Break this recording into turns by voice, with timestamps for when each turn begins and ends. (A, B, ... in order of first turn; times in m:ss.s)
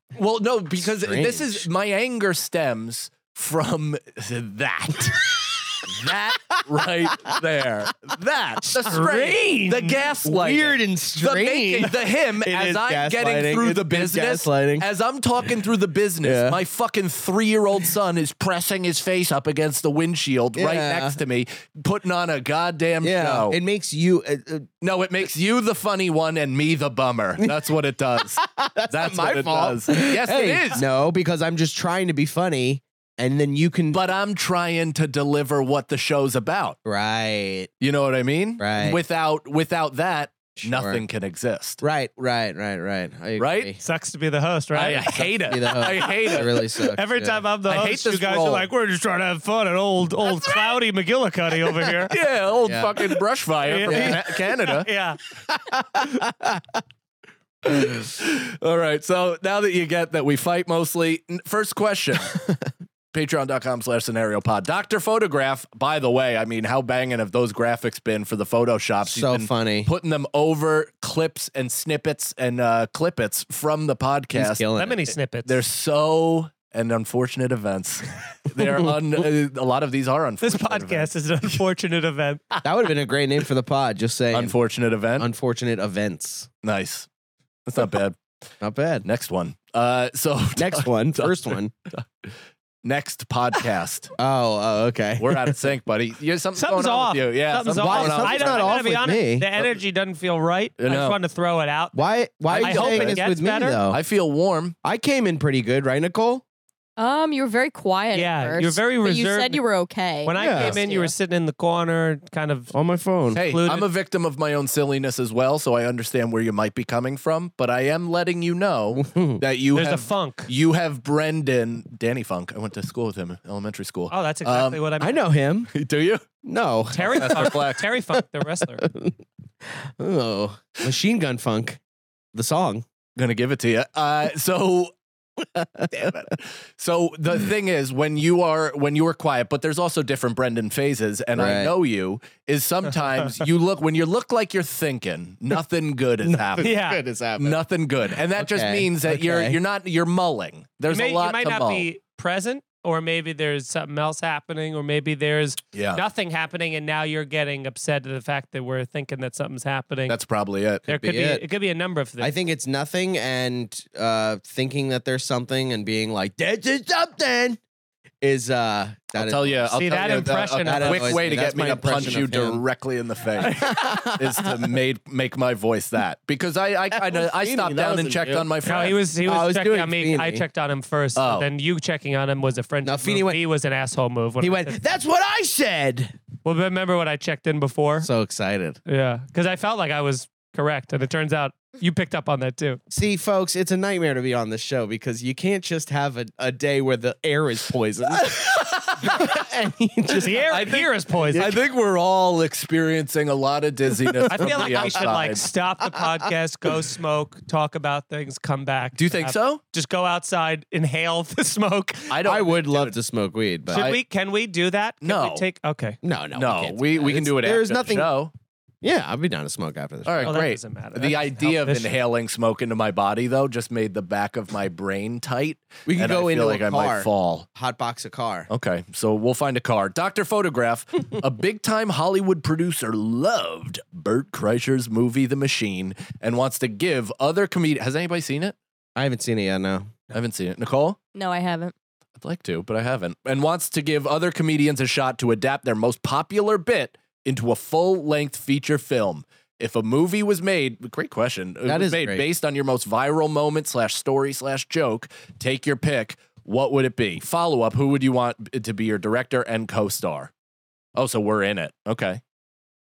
0:00.2-0:23.6 A
0:00.8-0:01.7 B
0:05.9-0:07.4 B
0:08.6-0:09.0 B
0:08.9-0:10.0 C
0:10.2-0:14.8 B
0:16.2-0:16.6 B
0:20.5-0:21.2 B
0:23.0-0:24.7 B
0:24.8-0:30.8 A
0:28.4-0:34.0 B
0:33.9-0:36.8 A
0:36.8-0:37.7 B
0:37.8-0:41.8 A
0:38.6-0:39.0 B
0:40.6-0:41.0 B
0:41.8-0:43.8 B
0:43.4-0:43.7 A
0:43.8-0:45.3 C
0:44.7-0:46.6 A
0:45.4-0:47.4 B
0:46.0-0:52.1 C
0:47.7-0:48.7 A
0:52.1-0:54.9 A
0:52.6-0:53.2 B
0:53.6-0:55.2 C
0:53.8-0:54.2 B
0:55.5-0:56.6 B
0:57.6-1:02.4 A
1:02.2-1:02.7 B
1:03.1-1:14.7 A
1:09.0-1:09.9 B
1:14.3-1:15.0 B
1:14.7-1:15.6 C
1:15.4-1:21.6 A
1:18.6-1:18.9 B
1:20.4-1:22.4 C
1:22.6-1:24.6 B
1:24.3-1:25.3 A
1:25.2-1:26.5 B
1:26.6-1:27.1 A
1:27.6-1:28.2 A
1:28.6-1:29.0 B
1:29.0-1:34.1 A
1:30.5-1:31.7 B
1:34.2-1:35.6 B
1:35.2-1:38.8 A
1:36.6-1:43.8 C
1:37.8-1:39.5 B
1:40.8-1:41.2 A
1:41.9-1:44.0 B
1:42.5-1:43.2 A
1:43.9-1:44.8 A
1:44.8-1:46.4 B
1:47.0-1:51.1 D
1:48.1-1:49.6 C
1:50.2-1:52.7 C
1:50.4-1:50.8 B
1:52.7-1:53.4 B
1:53.3-1:53.9 C
1:53.3-2:04.8 A
1:59.0-1:59.4 B
1:59.7-2:00.5 C
2:04.1-2:05.2 C
2:05.0-2:05.7 B
2:05.7-2:06.2 A
2:06.4-2:07.6 B
2:06.9-2:08.8 C
2:07.0-2:07.8 A
2:08.8-2:11.8 B
2:12.3-2:12.8 B
2:13.2-2:14.9 A
2:15.4-2:16.1 B
2:15.9-2:26.8 A
2:21.3-2:21.7 B
2:26.2-2:27.6 B
2:26.6-2:27.0 C
2:27.4-2:31.9 A
2:28.3-2:29.6 B
2:30.9-2:40.2 C
2:35.7-2:36.0 A
2:40.1-2:40.9 A
2:40.8-2:41.4 B
2:40.9-2:42.3 C
2:42.2-2:47.6 B
2:48.2-2:49.7 B
2:49.2-2:59.0 A
2:49.7-2:51.3 C
2:50.6-2:52.6 B
2:53.4-2:54.7 B
2:56.9-3:00.4 B
2:58.6-3:04.8 C
3:01.2-3:01.5 A
3:02.8-3:03.4 B
3:04.4-3:06.2 B
3:06.4-3:08.1 C
3:08.0-3:08.8 B
3:08.8-3:12.8 C
3:12.9-3:20.6 B
3:18.3-3:19.3 A
3:20.1-3:21.5 C
3:20.5-3:25.4 A
3:24.0-3:25.1 B
3:24.3-3:32.2 C
3:29.0-3:29.6 A
3:32.1-3:33.0 A
3:32.2-3:33.8 B
3:33.7-3:34.0 A
3:33.7-3:36.0 C
3:35.0-3:35.4 A
3:36.0-3:38.1 B
3:36.3-3:38.3 A
3:38.8-3:40.6 B
3:40.0-3:47.5 A
3:40.2-3:41.9 C
3:45.9-3:48.5 B
3:48.5-3:58.6 A
3:59.0-3:59.9 B
4:00.1-4:01.0 A
4:01.1-4:01.7 D
4:02.2-4:20.3 A
4:11.6-4:12.2 B
4:21.0-4:22.2 A